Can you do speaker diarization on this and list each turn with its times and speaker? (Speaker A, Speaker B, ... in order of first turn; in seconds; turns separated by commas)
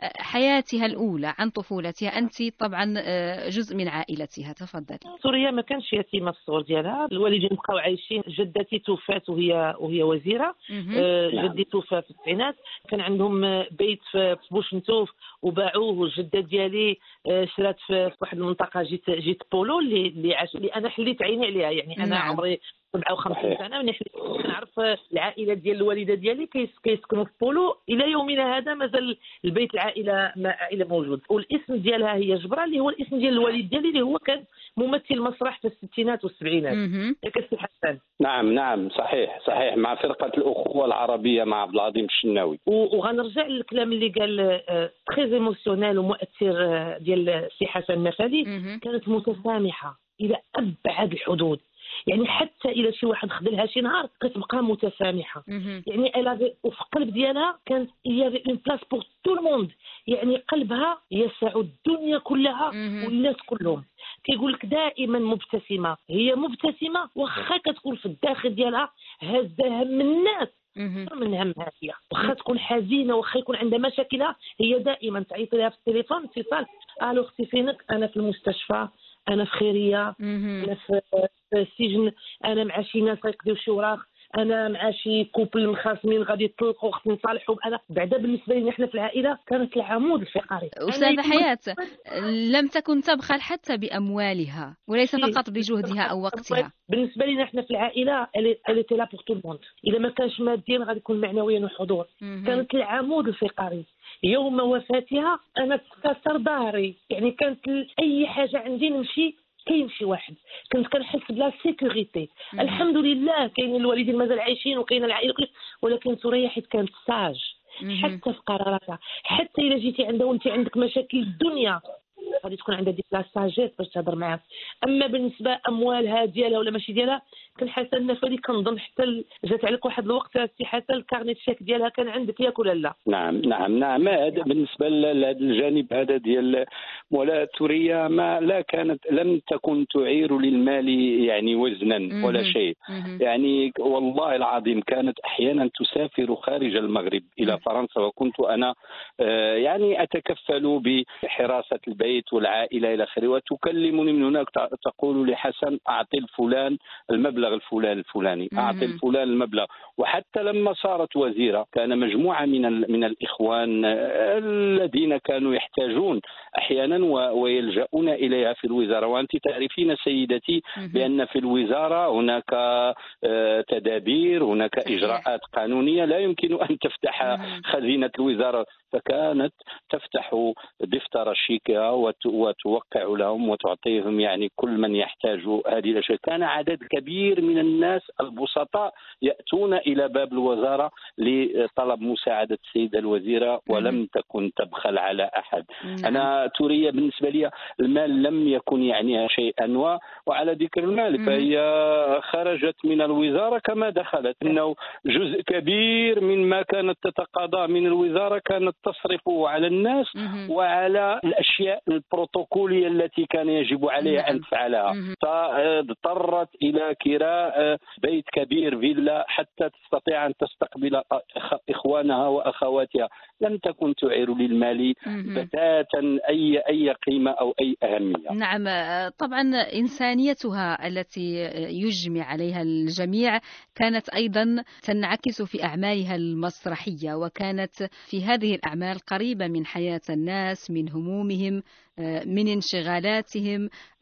Speaker A: 0.3-5.1, Speaker B: 5.1-38.0, Speaker A: 10.7-11.1, Speaker C: 11.3-11.6, Speaker A: 22.0-22.4, Speaker C: 23.3-23.6, Speaker A: 36.7-37.2, Speaker C: 38.2-42.6, Speaker B: 42.7-70.5, Speaker A: 48.5-48.8, Speaker A: 55.5-55.8, Speaker A: 62.8-63.1, Speaker A: 70.8-71.1, Speaker B: 71.1-91.5, Speaker A: 80.2-80.7, Speaker A: 90.9-96.7, Speaker B: 95.2-121.8, Speaker A: 102.2-102.7, Speaker A: 112.6-112.8, Speaker A: 117.9-118.2, Speaker B: 122.4-132.9, Speaker C: 133.1-228.3, Speaker A: 142.2-143.2, Speaker A: 158.6-159.0, Speaker A: 170.8-171.1, Speaker A: 174.9-175.2, Speaker A: 177.3-177.6, Speaker A: 193.7-194.0, Speaker A: 195.8-196.3, Speaker A: 201.2-201.5, Speaker A: 210.2-210.5, Speaker A: 214.0-215.2, Speaker A: 225.1-225.5, Speaker A: 228.3-231.3, Speaker A: 231.8-243.7